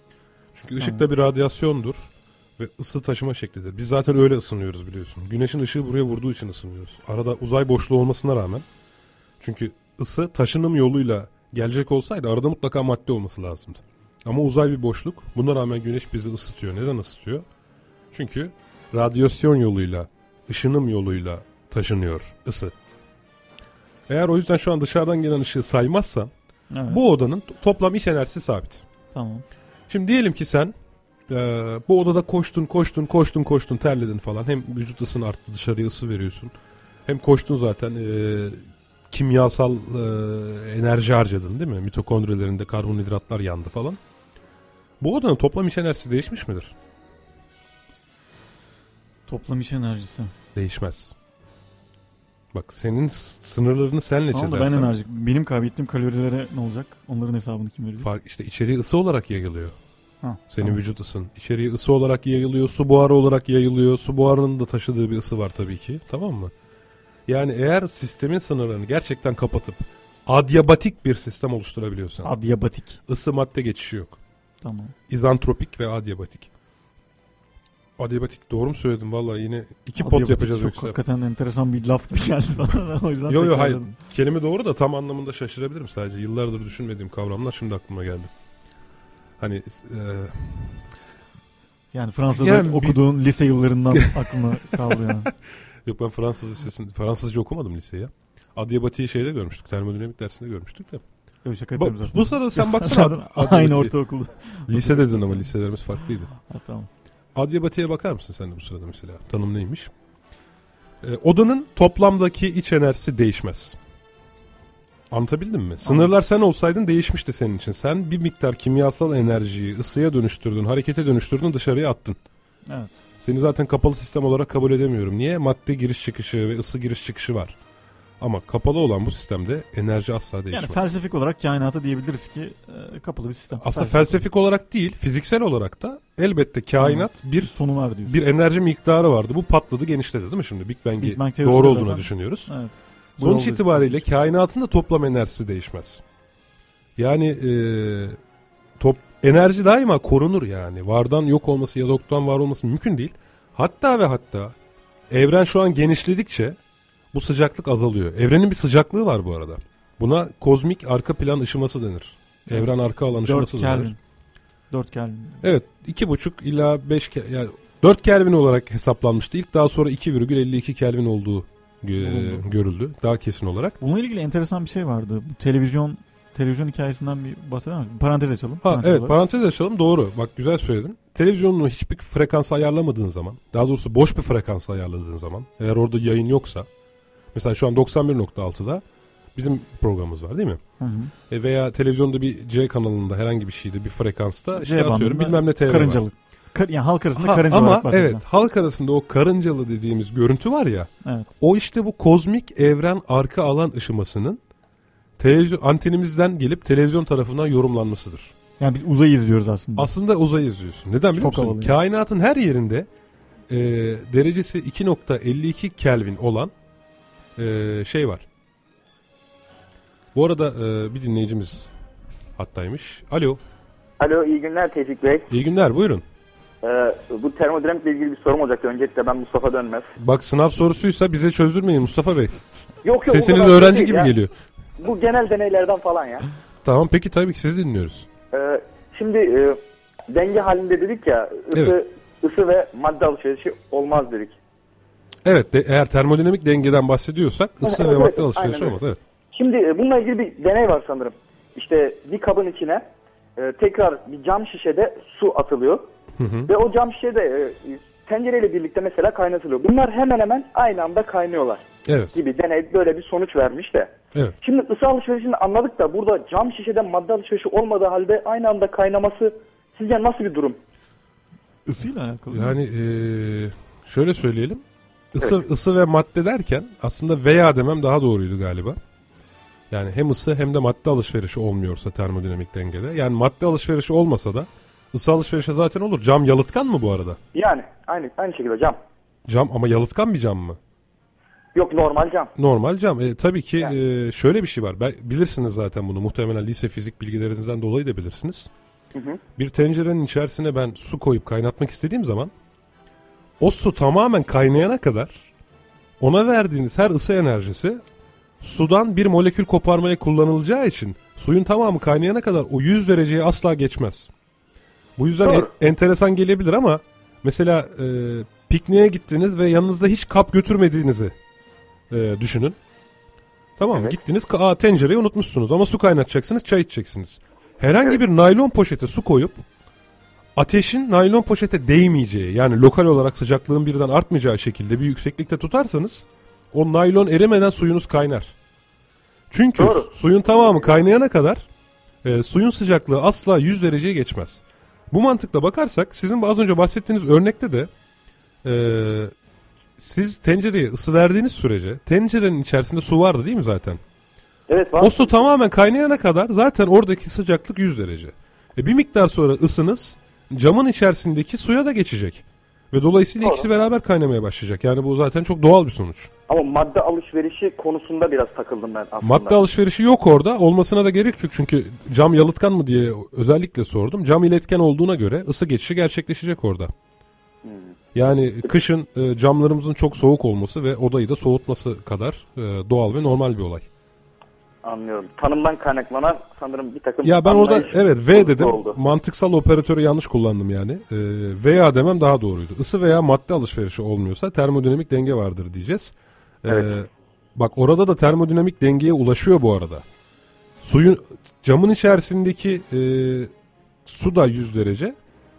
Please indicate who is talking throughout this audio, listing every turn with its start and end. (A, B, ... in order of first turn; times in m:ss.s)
0:00.5-0:08.6 A
0:00.8-0:01.0 B
0:09.4-0:17.4 A
0:18.1-0:22.7 A
0:24.1-0:26.3 A
0:26.7-0:27.0 B
0:26.9-0:28.8 A
0:29.1-0:29.4 B
0:29.9-0:30.7 A
0:31.3-0:36.5 A
0:37.0-0:44.0 A
0:45.0-0:46.7 A
0:49.3-0:50.3 B
0:50.5-0:51.1 A
0:52.5-0:54.9 A
0:54.3-0:58.1 B
0:58.0-0:59.8 A
1:00.2-1:00.8 B
1:00.5-1:06.5 A
1:07.3-1:12.3 A
1:12.2-1:13.0 B
1:13.1-1:14.2 A
1:14.6-1:14.9 B
1:15.1-1:16.5 A
1:18.0-1:21.0 A
1:20.0-1:24.0 B
1:23.3-1:28.3 A
1:29.4-1:30.9 A
1:31.9-1:35.3 B
1:32.3-1:33.0 A
1:35.8-1:41.0 A
1:41.4-1:45.5 B
1:41.8-1:43.9 A
1:44.7-1:46.3 A
1:46.4-1:46.9 B
1:47.3-1:49.9 A
1:51.0-1:53.8 A
1:55.1-2:02.2 A
1:55.8-1:56.1 B
2:02.7-2:02.9 B
2:03.2-2:07.6 A
2:08.2-2:10.9 A
2:10.5-2:14.2 B
2:13.6-2:17.5 A
2:16.8-2:18.2 B
2:18.0-2:22.5 A
2:21.0-2:24.0 B
2:23.2-2:26.0 A
2:27.0-2:28.2 A
2:28.8-2:34.6 A
2:35.1-2:36.6 A
2:37.1-2:43.9 A
2:42.5-2:44.0 B
2:44.7-2:45.4 B
2:45.4-2:53.8 A
2:52.0-2:52.5 B
2:53.8-2:59.1 B
2:58.6-3:06.7 A
3:07.3-3:08.8 A
3:09.3-3:10.6 A
3:10.8-3:11.1 B
3:11.3-3:16.0 A
3:14.5-3:18.2 B
3:17.2-3:24.4 A
3:21.0-3:21.3 B
3:25.2-3:28.3 A
3:28.6-3:29.9 B
3:29.8-3:32.9 A
3:31.1-3:31.8 B
3:33.5-3:36.5 A
3:37.4-3:38.2 A
3:40.1-3:41.7 A
3:42.4-3:43.4 A
3:44.0-3:45.3 C
3:45.3-3:46.0 A
3:46.6-3:49.9 C
3:50.0-3:52.4 A
3:52.8-3:54.1 C
3:53.0-3:54.3 A
3:54.8-3:56.3 C
3:56.6-3:58.1 A
3:58.3-4:04.4 C
4:05.2-4:09.0 A
4:07.6-4:08.8 C
4:09.3-4:12.8 C
4:13.4-4:15.9 C
4:16.2-4:16.5 A
4:16.5-4:21.6 C
4:21.8-4:22.2 A
4:22.1-4:30.6 C
4:31.6-4:32.6 B
4:32.3-4:38.8 A
4:39.7-4:47.2 A
4:47.3-4:48.8 C
4:49.3-4:50.6 A
4:51.5-4:52.3 C
4:52.4-4:58.5 A
4:58.9-4:59.2 C
4:59.4-5:02.3 A
5:03.4-5:05.3 A
5:06.0-5:07.8 A
5:08.4-5:14.1 A
5:15.0-5:21.1 A
5:15.2-5:15.5 C
5:21.9-5:22.6 A
5:23.6-5:29.4 A
5:30.4-5:38.3 A
5:39.3-5:41.5 A
5:39.6-5:39.9 C
5:42.0-5:47.7 A
5:48.4-5:49.1 A
5:49.8-5:53.8 A
5:54.5-5:55.0 C
5:54.8-6:06.1 A
6:06.3-6:09.4 C
6:09.0-6:16.7 A
6:17.4-6:17.8 C
6:17.9-6:23.7 A
6:24.6-6:28.8 C
6:27.0-6:39.8 A
6:40.6-6:43.3 A
6:43.8-6:45.0 A